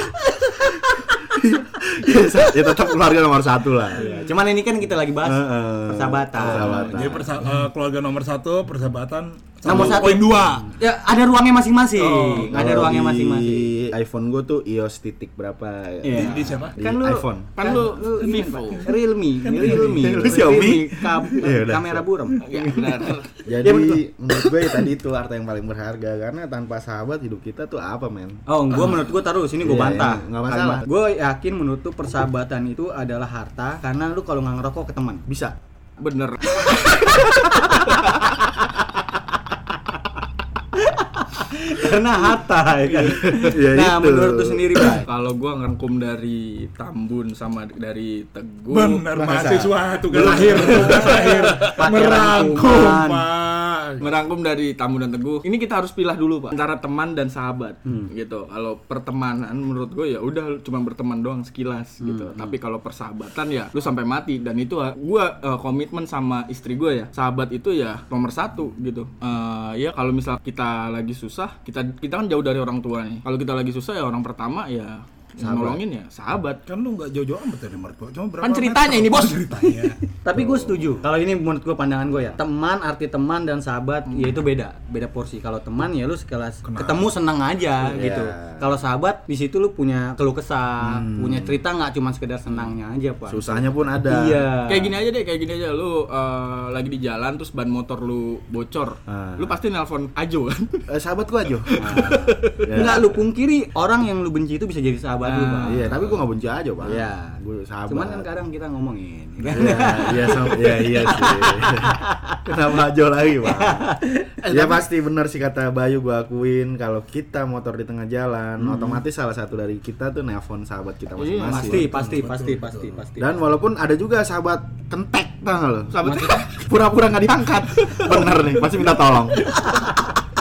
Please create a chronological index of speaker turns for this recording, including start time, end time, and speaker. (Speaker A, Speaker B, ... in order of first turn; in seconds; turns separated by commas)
Speaker A: 1.0-4.1, Speaker B: 4.0-6.8, Speaker A: 5.2-7.3, Speaker C: 6.4-10.8, Speaker B: 9.6-13.8, Speaker C: 12.0-12.7, Speaker A: 12.4-17.8, Speaker B: 16.0-22.4, Speaker C: 16.2-16.8, Speaker D: 17.6-18.9, Speaker C: 19.4-20.7, Speaker A: 19.6-22.9, Speaker D: 22.4-23.3, Speaker A: 23.4-29.0, Speaker B: 23.6-24.0, Speaker B: 28.5-35.2, Speaker A: 29.6-30.9, Speaker A: 35.3-35.6, Speaker D: 36.0-37.0, Speaker B: 37.6-37.9, Speaker B: 40.8-45.1, Speaker A: 42.9-45.0, Speaker D: 44.8-49.1, Speaker C: 48.7-54.1, Speaker A: 49.1-51.1, Speaker B: 50.1-53.3, Speaker D: 54.0-76.6, Speaker B: 57.9-58.1, Speaker B: 62.0-62.5, Speaker A: 75.4-75.8, Speaker C: 76.7-80.0, Speaker D: 78.4-79.9, Speaker B: 80.2-95.0, Speaker A: 80.3-81.1, Speaker D: 84.1-84.4, Speaker C: 86.6-87.1, Speaker A: 87.8-88.8, Speaker A: 90.8-91.6, Speaker A: 93.3-94.5, Speaker D: 94.7-100.8, Speaker A: 99.1-99.6, Speaker A: 100.9-103.2, Speaker D: 101.7-102.6, Speaker B: 101.8-105.8, Speaker D: 105.2-106.2, Speaker A: 105.6-108.3, Speaker B: 106.8-112.4, Speaker A: 109.5-122.1, Speaker B: 113.5-114.3, Speaker D: 114.4-114.8, Speaker D: 121.2-121.9, Speaker B: 121.5-123.3, Speaker C: 121.7-123.0, Speaker A: 123.2-129.6, Speaker D: 125.9-126.5, Speaker B: 126.0-126.5, Speaker B: 129.5-130.0